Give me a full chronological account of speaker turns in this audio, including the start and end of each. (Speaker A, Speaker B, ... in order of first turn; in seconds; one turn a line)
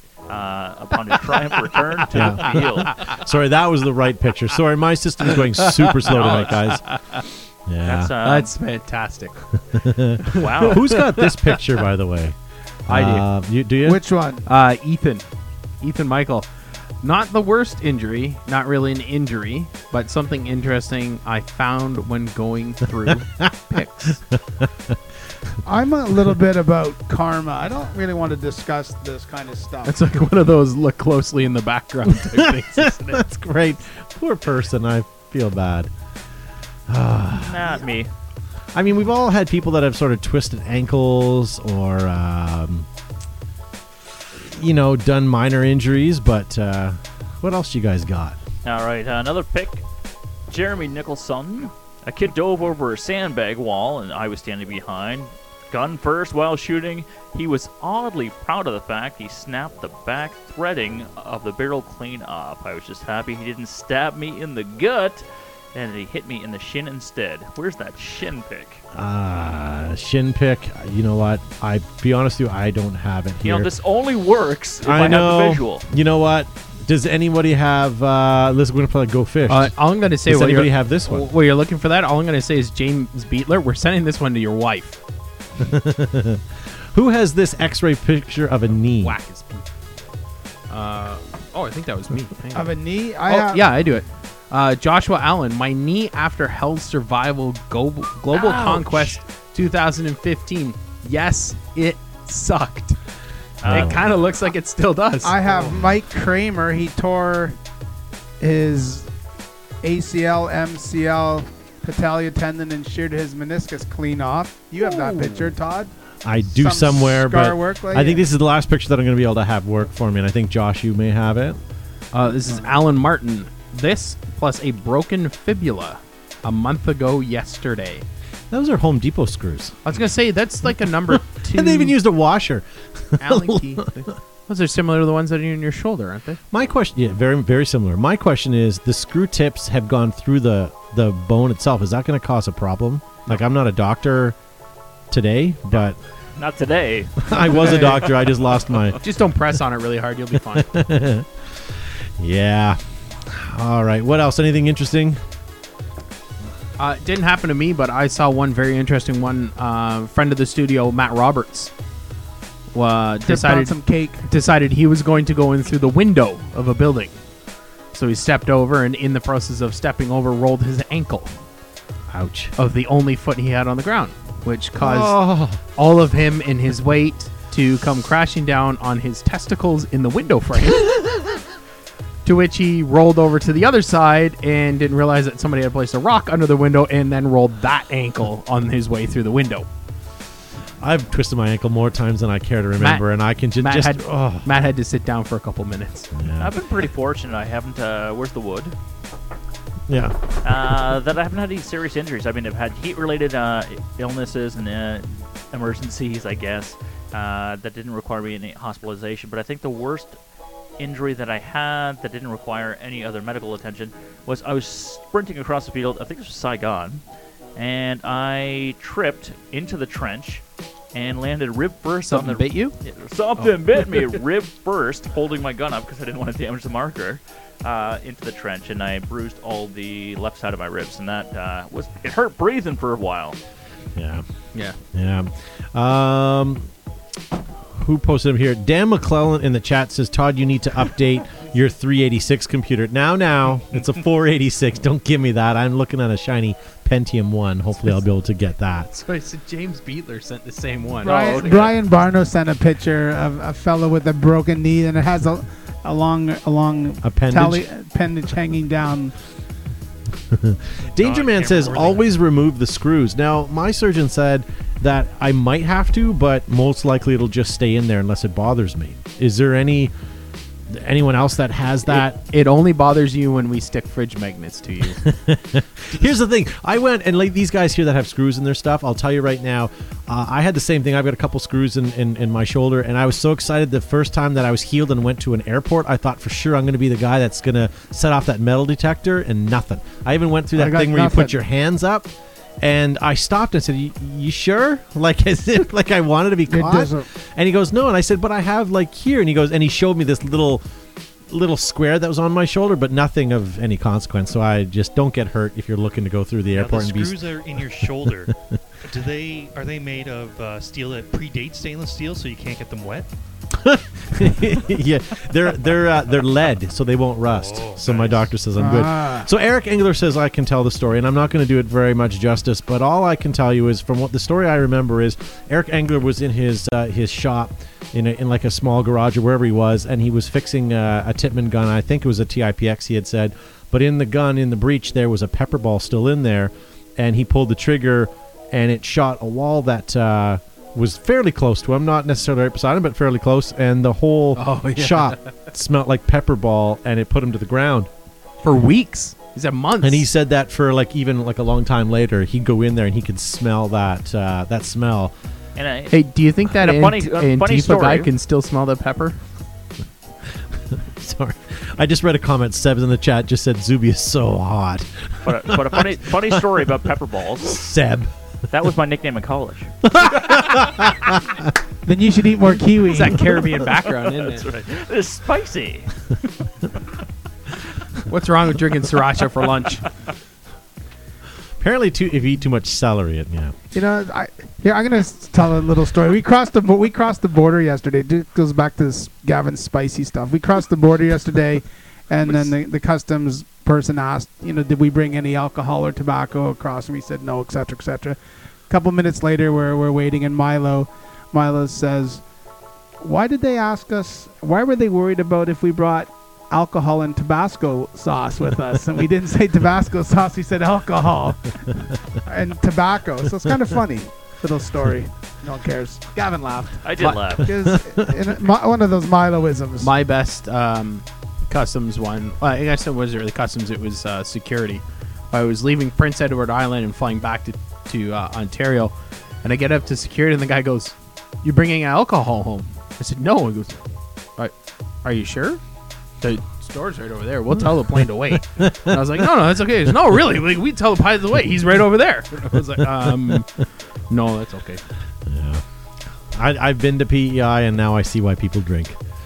Speaker A: 0.3-3.0
Speaker B: 2.1-6.8
Speaker C: 5.3-7.2
Speaker B: 7.7-8.1
Speaker A: 7.8-8.6
Speaker C: 8.2-9.4
Speaker B: 9.7-12.3
Speaker C: 10.3-11.6
Speaker A: 10.3-10.9
Speaker C: 12.9-13.3
Speaker B: 12.9-14.0
Speaker D: 13.8-14.5
Speaker C: 14.5-15.2
Speaker C: 15.8-16.5
Speaker C: 17.0-24.2
Speaker B: 24.6-24.9
Speaker D: 25.6-30.0
Speaker C: 29.9-33.2
Speaker B: 32.3-35.9
Speaker B: 36.9-37.8
Speaker A: 37.3-38.1
Speaker B: 38.7-42.9
Speaker B: 44.4-48.4
Speaker A: 48.6-49.8
Speaker A: 50.5-68.8
Speaker B: 68.9-73.7
Speaker A: 73.4-75.9
Speaker B: 74.8-79.7
Speaker C: 79.5-85.0
Speaker B: 80.2-81.3
Speaker B: 85.6-89.2
Speaker C: 89.0-89.7
Speaker C: 90.7-92.7
Speaker D: 92.5-93.7
Speaker C: 93.2-103.0
Speaker A: 98.3-99.2
Speaker A: 103.6-103.9
Speaker C: 103.7-105.4
Speaker B: 103.7-104.0
Speaker D: 105.2-107.6
Speaker D: 108.4-109.1
Speaker D: 109.8-115.9
Speaker B: 116.2-121.6
Speaker D: 116.5-118.3
Speaker C: 122.1-128.1
Speaker B: 128.5-129.8
Speaker C: 129.8-132.0
Speaker B: 131.1-133.8
Speaker C: 133.2-136.4
Speaker B: 136.5-144.4
Speaker B: 145.1-146.0
Speaker A: 146.4-147.3
Speaker B: 147.3-149.0
Speaker C: 149.0-150.7
Speaker B: 150.5-151.3
Speaker B: 152.2-155.2
Speaker C: 156.8-161.7
Speaker C: 162.7-163.8
Speaker D: 163.3-164.3
Speaker C: 164.3-167.2
Speaker C: 167.9-171.3
Speaker B: 172.1-172.5
Speaker C: 172.6-181.3
Speaker B: 174.8-175.6
Speaker C: 182.2-189.7
Speaker B: 190.8-194.5
Speaker C: 192.8-196.1
Speaker B: 196.1-196.5
Speaker A: 196.4-198.8
Speaker B: 199.9-200.2
Speaker A: 200.4-210.2
Speaker A: 210.8-217.0
Speaker A: 217.6-220.4
Speaker A: 220.9-233.4
Speaker C: 222.1-222.8
Speaker C: 223.4-224.1
Speaker B: 234.0-234.2
Speaker B: 234.9-236.7
Speaker B: 237.8-248.9
Speaker C: 248.9-251.8
Speaker D: 251.0-259.1
Speaker B: 257.0-257.6
Speaker B: 260.3-269.9
Speaker E: 260.9-262.1
Speaker B: 270.7-272.2
Speaker C: 271.9-275.0
Speaker B: 275.0-300.6
Speaker D: 290.5-291.4
Speaker D: 296.5-297.1
Speaker B: 301.3-307.3
Speaker E: 306.5-308.3
Speaker E: 308.9-313.1
Speaker B: 313.6-347.9
Speaker E: 317.3-318.3
Speaker D: 318.6-319.3
Speaker C: 344.4-345.2
Speaker C: 348.4-350.1
Speaker B: 349.8-355.1
Speaker A: 355.6-358.1
Speaker C: 355.9-359.2
Speaker B: 360.7-365.9
Speaker A: 365.2-367.6
Speaker B: 367.5-368.1
Speaker A: 368.5-369.8
Speaker B: 369.9-371.4
Speaker D: 371.9-373.4
Speaker C: 372.8-374.5
Speaker A: 373.8-376.1
Speaker C: 378.1-379.9
Speaker B: 381.6-383.5
Speaker D: 383.7-402.2
Speaker D: 403.0-419.9
Speaker A: 416.8-417.5
Speaker C: 417.0-417.4
Speaker C: 419.8-433.8
Speaker C: 435.0-435.6
Speaker C: 436.2-444.8
Speaker B: 437.9-439.3
Speaker B: 443.0-443.3
Speaker B: 445.3-445.6
Speaker B: 446.3-449.0